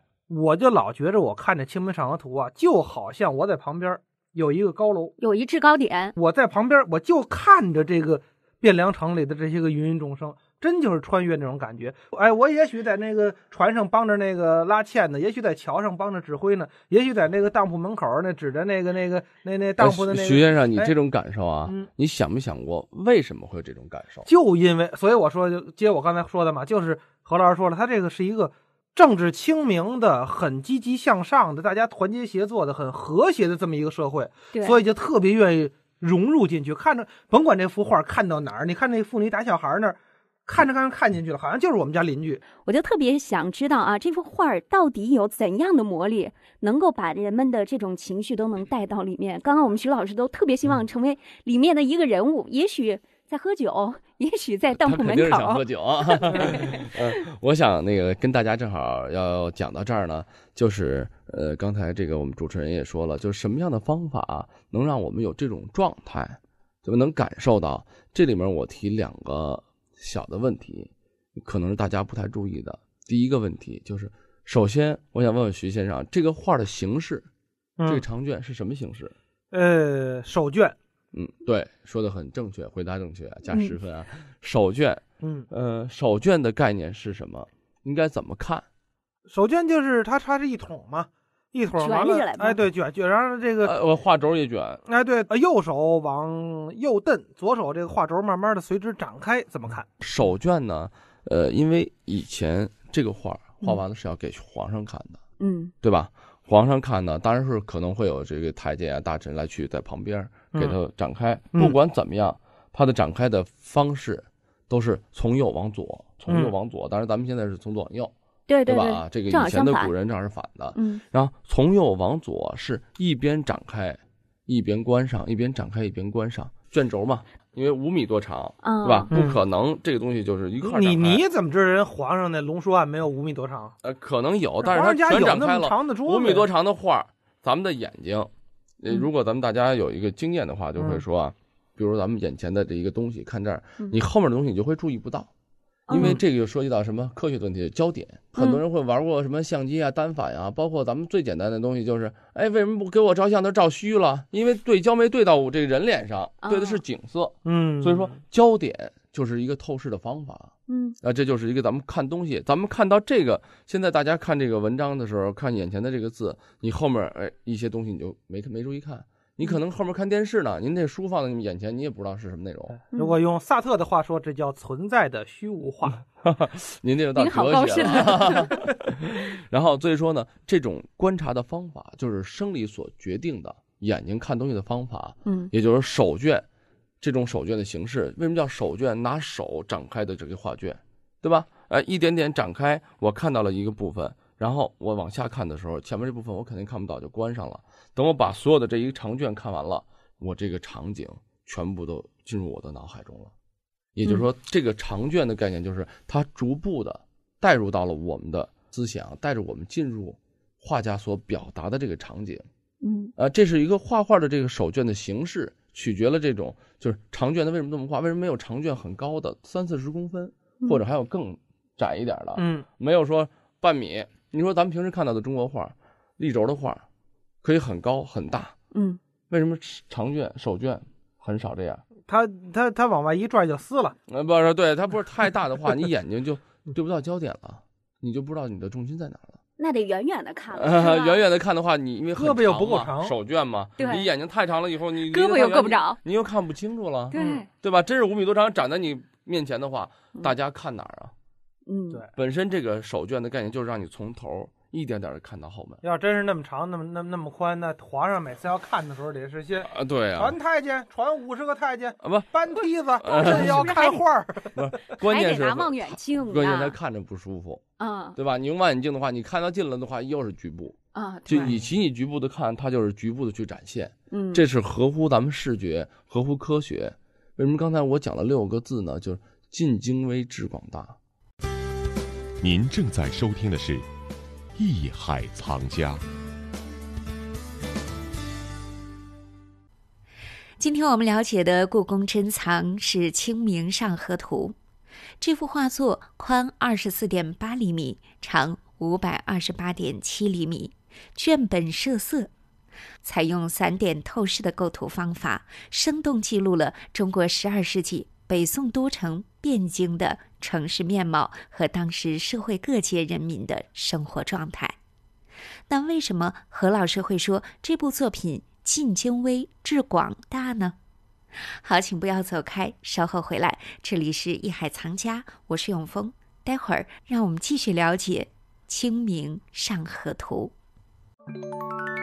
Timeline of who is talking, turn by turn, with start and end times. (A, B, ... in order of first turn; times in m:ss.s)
0:00.3-0:05.2 A
0:05.2-0:06.1 B
0:06.2-0:20.9 A
0:19.8-0:24.3 C
0:24.3-0:42.4 A
0:34.5-0:34.8 B
0:42.6-0:56.7 B
0:54.8-1:17.3 C
1:17.8-1:18.0 A
1:17.9-1:19.2 C
1:19.5-1:20.8 A
1:21.1-1:28.6 C
1:23.5-1:23.7 B
1:25.2-1:25.5 A
1:29.3-1:33.7 A
1:31.8-1:32.6 B
1:33.6-1:34.8 C
1:34.9-1:39.9 A
1:40.0-1:45.2 C
1:45.4-1:45.7 B
1:45.8-1:58.1 C
1:56.3-1:56.5 A
1:58.5-2:00.0 B
1:58.7-2:11.2 C
2:00.8-2:01.0 B
2:08.6-2:09.1 B
2:09.1-2:09.4 A
2:10.6-2:13.7 A
2:13.8-2:25.3 C
2:14.6-2:16.5 A
2:25.9-2:26.2 B
2:25.9-2:52.8 C
2:36.4-2:36.8 B
2:37.4-2:38.1 A
2:40.7-2:41.0 B
2:52.9-2:53.2 B
2:53.0-2:56.0 A
2:56.2-3:06.5 C
2:57.2-2:58.6 B
3:07.0-3:23.3 C
3:24.0-3:32.5 C
3:32.8-3:33.1 B
3:33.2-3:46.8 C
3:42.4-3:42.6 A
3:47.4-3:48.5 C
3:48.7-3:49.0 B
3:49.3-3:51.8 C
3:52.1-3:54.0 A
3:54.1-3:59.4 C
3:59.6-4:01.2 B
4:00.5-4:11.1 C
4:02.2-4:03.2 A
4:03.8-4:04.1 B
4:05.1-4:06.0 B
4:07.1-4:07.5 B
4:07.2-4:07.4 A
4:11.7-4:12.0 B
4:12.1-4:15.8 C
4:15.8-4:24.5 A
4:19.6-4:20.4 C
4:22.0-4:22.4 C
4:23.0-4:23.8 C
4:23.1-4:24.0 B
4:24.5-4:27.6 C
4:25.0-4:26.8 B
4:27.8-4:28.2 B
4:28.2-4:41.0 C
4:31.0-4:31.6 B
4:31.3-4:31.6 A
4:34.1-4:34.4 B
4:42.4-4:43.9 D
4:44.6-4:46.0 D
4:50.6-4:54.6 E
4:55.2-5:02.3 E
5:03.0-5:14.8 E
5:15.7-5:20.8 E
5:21.6-5:30.5 E